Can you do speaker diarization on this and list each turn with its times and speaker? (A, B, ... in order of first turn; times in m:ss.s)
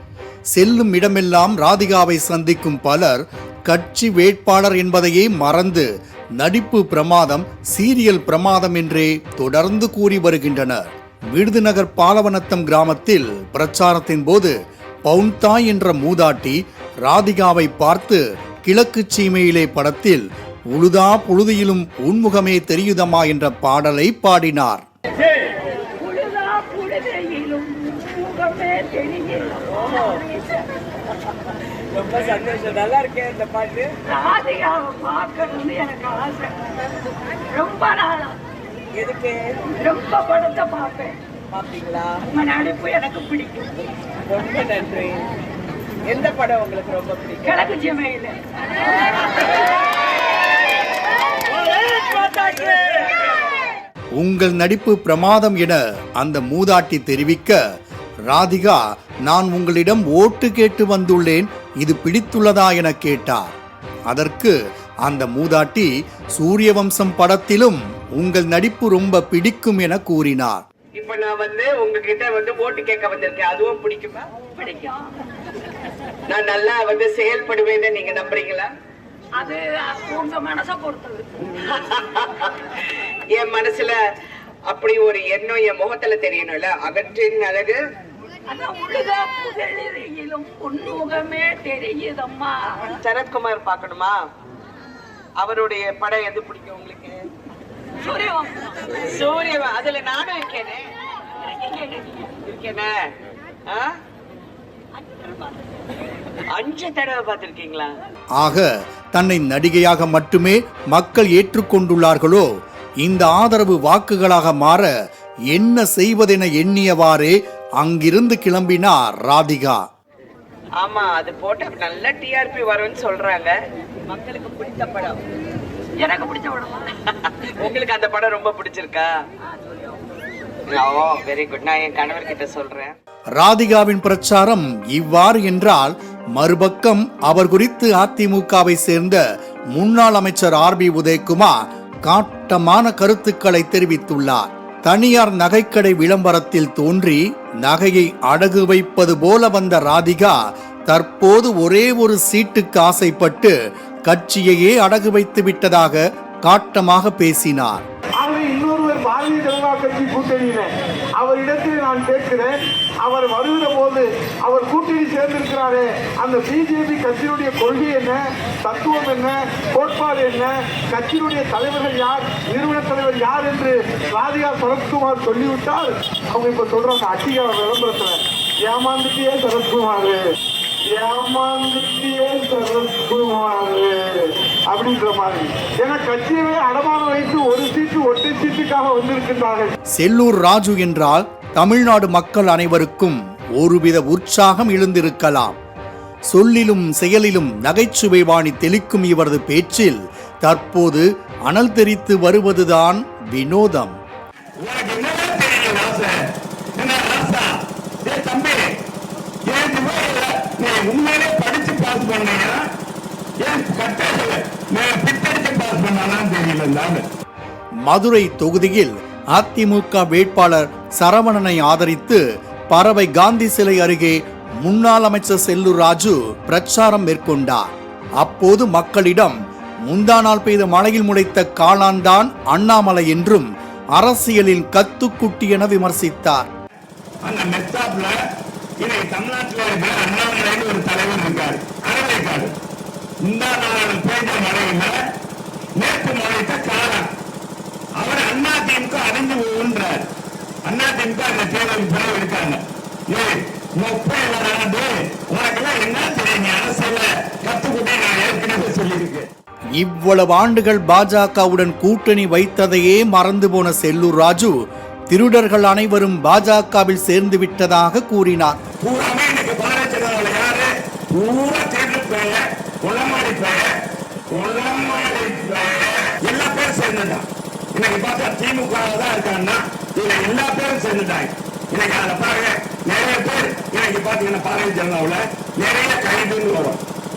0:00.6-0:14.5 A
0:15.1-0:24.8 A
0:25.9-0:30.6 B
0:31.9-0:34.0 C
0:34.0-0:36.7 B
0:37.5-0:38.4 B
0:39.0-0:39.7 C
0:39.7-0:41.2 B
0:41.5-0:42.3 C
0:42.3-0:43.7 B
0:44.3-0:45.3 C
0:46.0-0:47.6 C
0:47.4-0:49.6 B
0:52.0-0:53.0 C
0:54.2-0:57.6 A
0:58.3-1:03.6 A
1:04.1-1:10.6 A
1:11.0-1:14.3 C
1:14.6-1:15.2 B
1:16.3-1:18.7 C
1:19.4-1:21.2 B
1:21.4-1:22.6 C
1:23.3-1:24.0 C
1:24.7-1:27.8 C
1:28.5-1:32.9 B
1:32.9-1:34.2 C
1:35.4-1:37.2 C
1:38.0-1:38.8 B
1:38.9-1:40.8 C
1:41.4-1:42.9 C
1:43.7-1:43.9 C
1:45.1-1:45.6 B
1:46.5-1:47.9 C
1:48.4-1:52.4 A
1:53.0-1:54.9 A
1:55.5-1:59.8 A
2:00.8-2:03.6 C
2:04.1-2:05.2 C
2:06.0-2:06.9 B
2:07.0-2:09.1 C
2:10.7-2:12.9 C
2:13.4-2:19.2 A
2:19.7-2:30.4 A
2:30.9-2:33.5 A
2:34.1-2:37.8 A
2:38.2-3:00.2 D
3:00.9-3:09.7 D
3:10.0-3:15.6 A
3:16.3-3:23.9 A
3:24.6-3:26.2 E
3:26.8-3:28.6 E
3:29.4-3:32.6 E
3:33.4-3:37.1 E
3:37.8-3:47.7 A
3:48.2-3:49.4 A
3:49.9-3:56.5 A
3:57.2-3:58.2 E
3:58.8-4:02.6 E
4:03.2-4:05.0 E
4:05.8-4:07.1 E
4:08.0-4:10.1 E
4:10.6-4:19.3 E
4:19.8-4:24.5 A
4:25.1-4:28.6 A
4:28.8-4:33.7 E
4:34.3-4:46.8 E